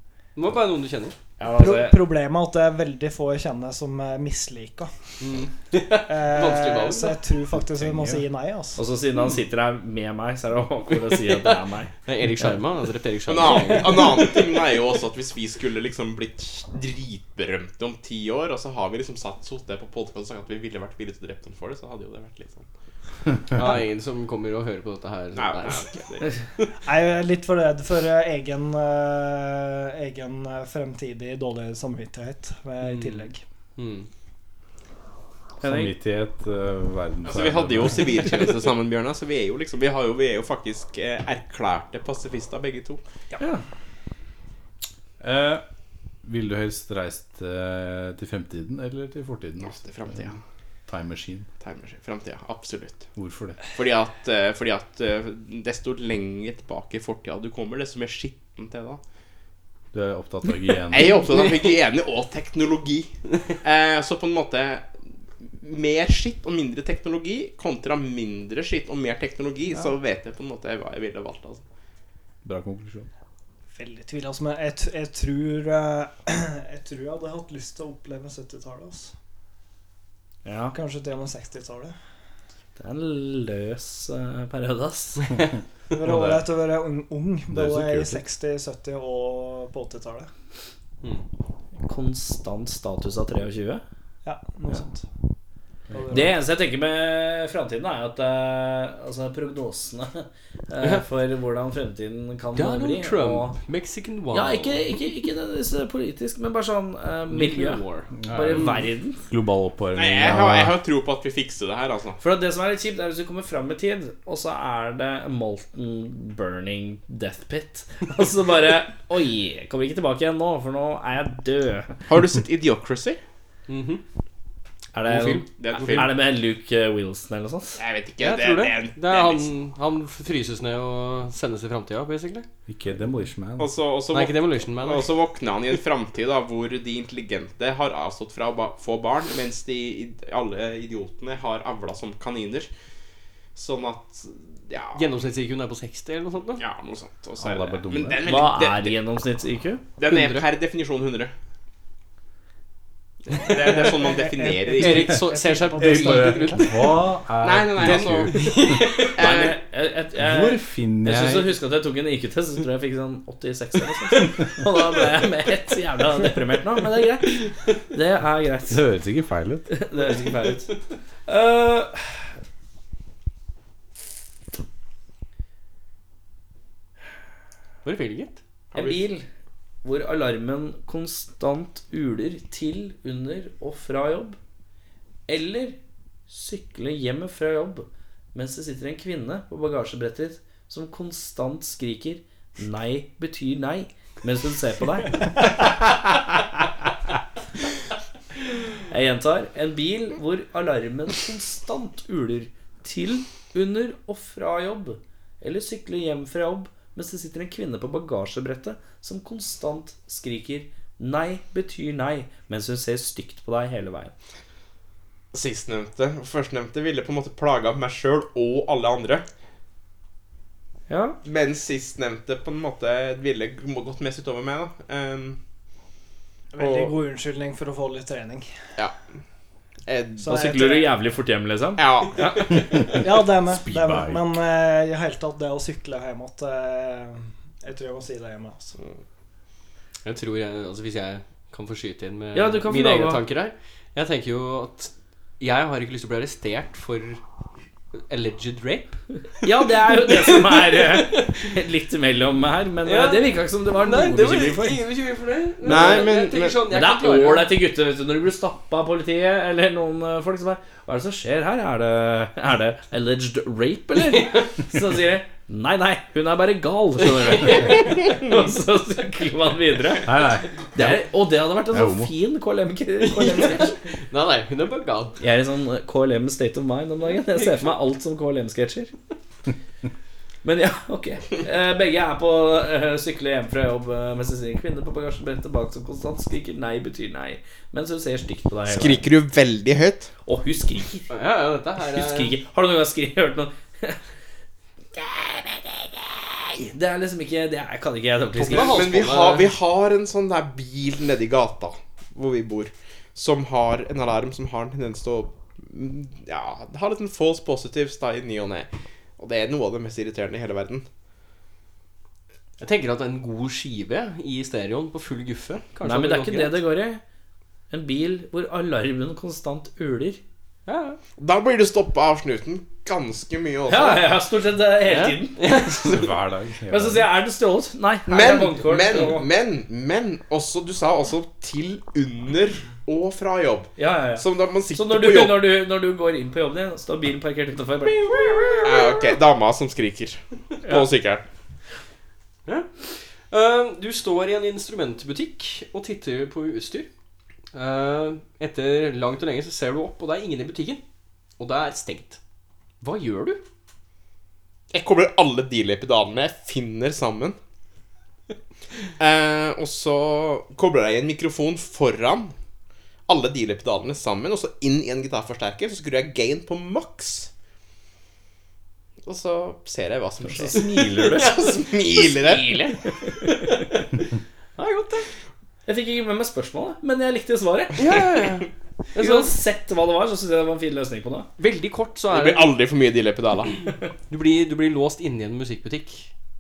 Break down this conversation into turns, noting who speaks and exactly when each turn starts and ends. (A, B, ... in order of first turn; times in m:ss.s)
0:00.4-0:01.2 A
0:01.4-0:02.0 B
0:01.5-0:05.2 C
0:05.2-0:07.2 A
0:06.1-0:08.8 C
0:07.6-0:08.2 D
0:08.8-0:12.6 B
0:11.2-0:14.7 A
0:13.3-0:22.7 E
0:23.5-0:26.7 A
0:25.4-0:26.4 E
0:26.8-0:33.4 C
0:32.8-0:34.1 A
0:35.6-0:38.2 D
0:35.6-0:35.9 B
0:37.2-0:43.0 E
0:37.9-0:38.5 A
0:45.2-0:45.7 D
0:46.2-0:50.4 D
0:49.6-0:50.4 E
0:50.9-0:51.5 D
0:51.6-0:53.1 E
0:53.2-0:53.6 D
0:53.6-0:59.0 E
0:59.9-1:01.3 D
1:00.9-1:11.6 E
1:12.4-1:13.1 D
1:13.8-1:19.2 C
1:20.4-1:20.8 B
1:20.7-1:22.0 C
1:22.8-1:25.3 B
1:25.9-1:30.3 C
1:26.0-1:26.5 D
1:27.5-1:28.2 D
1:31.9-1:33.8 B
1:34.2-1:35.1 C
1:35.9-1:36.4 C
1:36.1-1:43.6 B
1:42.6-1:44.9 A
1:44.3-1:49.2 B
1:47.3-1:48.8 A
1:48.1-1:50.7 D
1:50.0-1:52.2 E
1:52.2-2:02.0 B
2:02.1-2:03.2 E
2:03.7-2:04.0 A
2:04.9-2:07.8 B
2:05.1-2:06.1 A
2:05.6-2:06.2 E
2:07.8-2:09.5 E
2:08.2-2:12.5 A
2:12.7-2:13.7 D
2:13.6-2:22.7 E
2:14.1-2:15.1 A
2:23.6-2:25.0 E
2:25.0-2:26.6 A
2:26.6-2:29.0 E
2:27.4-2:28.3 D
2:28.3-2:29.8 B
2:30.0-2:31.3 E
2:30.0-2:30.5 A
2:33.3-2:35.1 E
2:33.6-2:36.7 C
2:34.8-2:36.8 A
2:35.7-2:38.4 D
2:37.4-2:38.3 E
2:37.8-2:39.2 A
2:39.1-2:39.6 E
2:39.2-2:48.8 B
2:40.2-2:41.5 D
2:48.7-2:49.7 D
2:49.7-2:50.8 B
2:51.3-2:52.3 B
2:57.8-2:58.4 A
2:58.7-2:59.0 E
2:58.7-2:59.2 B
2:59.8-3:04.4 B
3:05.3-3:05.8 B
3:06.3-3:15.4 B
3:18.9-3:34.1 B
3:35.3-3:39.3 E
3:40.9-3:41.2 B
3:41.2-3:45.4 E
3:46.5-3:48.6 C
3:46.6-3:46.9 E
3:48.8-3:49.0 E
3:49.9-3:50.3 E
3:50.2-3:51.0 C
3:50.3-3:52.4 B
3:51.8-3:52.8 E
3:53.0-3:58.8 C
3:53.2-3:54.3 D
4:00.0-4:07.2 A
4:02.3-4:03.2 B
4:07.9-4:09.5 A
4:09.4-4:14.8 B
4:10.1-4:11.3 A
4:12.8-4:17.5 A
4:15.6-4:16.6 E
4:15.7-4:16.0 B
4:16.7-4:30.2 B
4:27.2-4:28.1 A
4:30.0-4:31.0 D
4:30.8-4:33.8 B
4:31.7-4:32.1 D
4:33.2-4:35.2 A
4:35.2-4:38.9 B
4:37.3-4:37.7 A
4:40.4-4:49.1 B
4:48.7-4:50.1 E
4:50.3-4:51.1 B
4:51.1-4:52.3 A
4:51.8-4:54.0 B
4:56.7-4:58.8 B
4:58.5-4:59.5 A
4:58.5-5:10.9 E
5:12.6-5:16.6 A
5:15.8-5:17.0 B
5:17.7-5:20.2 B
5:20.7-5:21.0 A
5:21.2-5:24.0 E
5:23.7-5:25.8 B
5:24.9-5:26.0 A
5:25.8-5:27.1 D
5:26.7-5:29.3 B
5:28.1-5:35.4 E
5:33.8-5:38.6 B
5:37.9-5:39.0 A
5:38.6-5:41.2 E
5:42.5-5:46.9 A
5:47.5-5:50.8 A
5:51.4-5:52.2 A
5:52.8-5:53.4 A
5:54.7-5:57.4 E
5:59.0-6:02.3 E
6:03.1-6:07.3 E
6:09.1-6:12.8 E
6:10.3-6:13.2 B
6:14.6-6:15.1 A
6:15.7-6:17.8 B
6:17.8-6:19.3 A
6:19.0-6:21.3 B
6:21.4-6:22.5 A
6:22.1-6:23.6 E
6:24.1-6:26.1 A